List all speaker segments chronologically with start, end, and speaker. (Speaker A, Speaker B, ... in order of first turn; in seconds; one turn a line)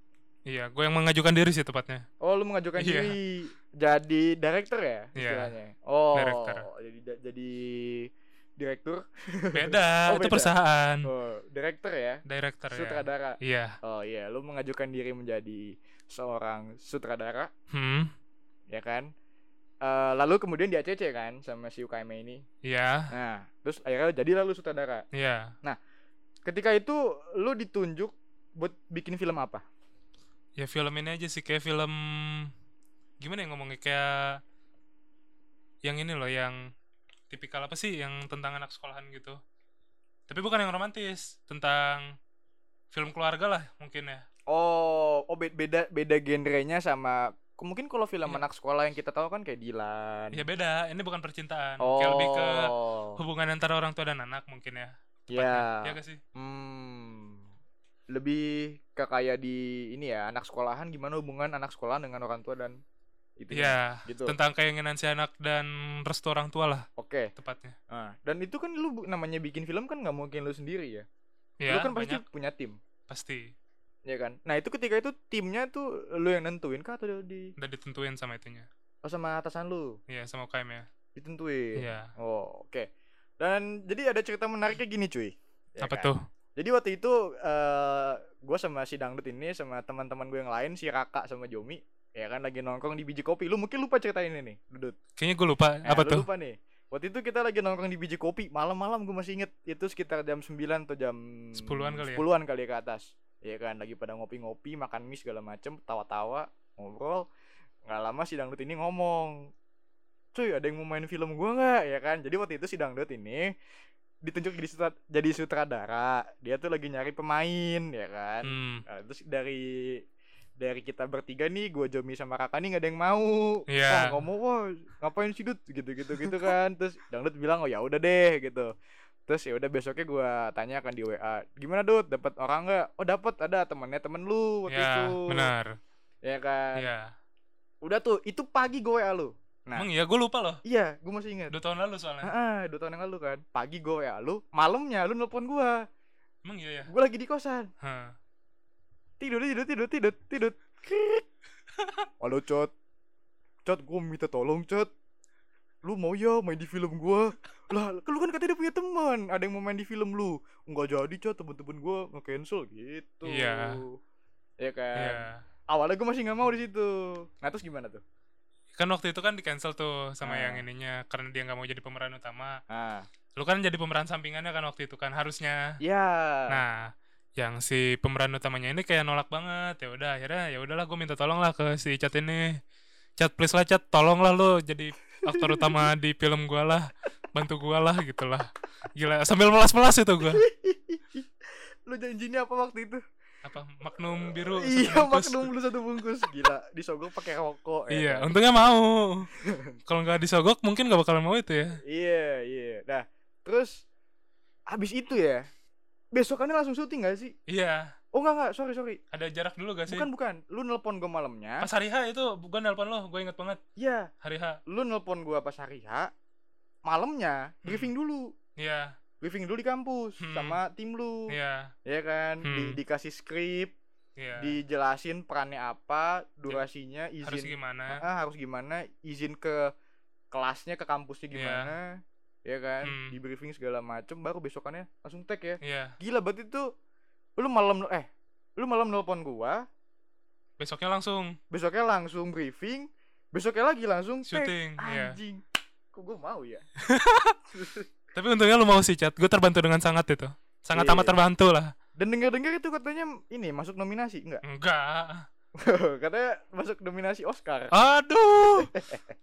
Speaker A: 0.5-2.1
Speaker B: 2.2-10.5
Speaker A: 2.8-3.2
Speaker A: 5.2-5.5
Speaker A: 6.1-6.7
Speaker A: 9.5-11.1
Speaker B: 11.0-17.5
Speaker A: 12.3-13.8
Speaker A: 17.7-18.1
Speaker B: 18.7-19.1
Speaker B: 19.8-22.4
Speaker A: 22.6-23.1
Speaker B: 23.1-25.1
Speaker A: 25.1-25.5
Speaker B: 26.5-29.6
Speaker A: 30.6-32.5
Speaker A: 33.2-34.4
Speaker A: 35.8-36.6
Speaker A: 37.3-39.4
Speaker A: 40.3-42.1
Speaker A: 42.9-44.2
Speaker B: 44.5-50.4
Speaker A: 50.3-56.2
Speaker B: 51.8-53.2
Speaker B: 55.3-57.4
Speaker B: 58.1-62.8
Speaker B: 63.4-64.3
Speaker A: 63.5-67.8
Speaker B: 67.0-67.3
Speaker B: 67.9-71.1
Speaker A: 71.6-72.2
Speaker B: 71.7-72.8
Speaker A: 73.1-73.5
Speaker B: 74.1-77.5
Speaker A: 77.6-78.7
Speaker B: 79.0-80.0
Speaker A: 80.1-80.9
Speaker B: 81.2-82.9
Speaker A: 81.8-82.1
Speaker B: 83.4-95.0
Speaker A: 85.8-86.2
Speaker A: 95.2-96.3
Speaker B: 95.8-107.2
Speaker A: 101.6-102.2
Speaker B: 107.9-109.5
Speaker B: 110.3-113.5
Speaker B: 114.2-120.0
Speaker A: 118.4-118.8
Speaker B: 120.6-128.7
Speaker A: 123.7-124.2
Speaker B: 129.3-135.5
Speaker A: 134.7-135.8
Speaker B: 136.2-136.8
Speaker A: 136.8-137.1
Speaker B: 137.8-139.9
Speaker A: 139.8-140.6
Speaker B: 140.7-141.6
Speaker A: 141.5-142.3
Speaker B: 142.2-145.9
Speaker A: 146.4-146.9
Speaker B: 146.9-147.7
Speaker A: 147.8-148.2
Speaker B: 149.2-151.2
Speaker A: 151.8-152.1
Speaker B: 152.2-152.7
Speaker B: 153.7-154.9
Speaker B: 155.8-164.0
Speaker A: 163.3-163.8
Speaker B: 164.6-168.0
Speaker A: 165.0-165.4
Speaker A: 168.7-172.6
Speaker B: 170.2-170.7
Speaker B: 172.7-173.1
Speaker A: 173.4-175.8
Speaker B: 175.8-176.6
Speaker A: 176.5-182.6
Speaker A: 183.2-190.4
Speaker B: 185.3-185.9
Speaker B: 190.3-191.3
Speaker B: 191.9-193.0
Speaker A: 193.4-195.5
Speaker B: 194.1-198.3
Speaker A: 197.9-199.3
Speaker B: 199.4-199.7
Speaker A: 199.9-201.8
Speaker B: 201.9-203.8
Speaker B: 204.7-205.5
Speaker B: 206.1-207.3
Speaker A: 207.5-207.9
Speaker B: 208.1-209.0
Speaker A: 209.1-210.1
Speaker B: 209.9-211.7
Speaker A: 211.6-213.6
Speaker B: 213.8-214.1
Speaker A: 214.2-214.6
Speaker B: 214.7-216.1
Speaker B: 216.8-218.3
Speaker A: 217.7-217.9
Speaker A: 218.6-218.9
Speaker B: 219.2-221.3
Speaker A: 220.2-220.6
Speaker A: 221.3-221.7
Speaker B: 221.9-223.8
Speaker A: 222.4-222.8
Speaker A: 224.2-224.6
Speaker B: 224.4-229.7
Speaker A: 227.2-228.0
Speaker B: 230.3-236.7
Speaker A: 231.3-231.7
Speaker A: 232.8-233.2
Speaker A: 235.6-236.0
Speaker B: 237.4-239.7
Speaker A: 240.6-241.4
Speaker B: 241.5-245.4
Speaker A: 244.3-245.2
Speaker B: 245.9-246.7
Speaker A: 246.8-247.4
Speaker B: 247.5-247.9
Speaker A: 248.1-251.7
Speaker B: 250.7-251.2
Speaker B: 252.0-254.4
Speaker A: 254.4-255.3
Speaker B: 255.6-257.7
Speaker A: 257.7-258.7
Speaker B: 258.7-259.0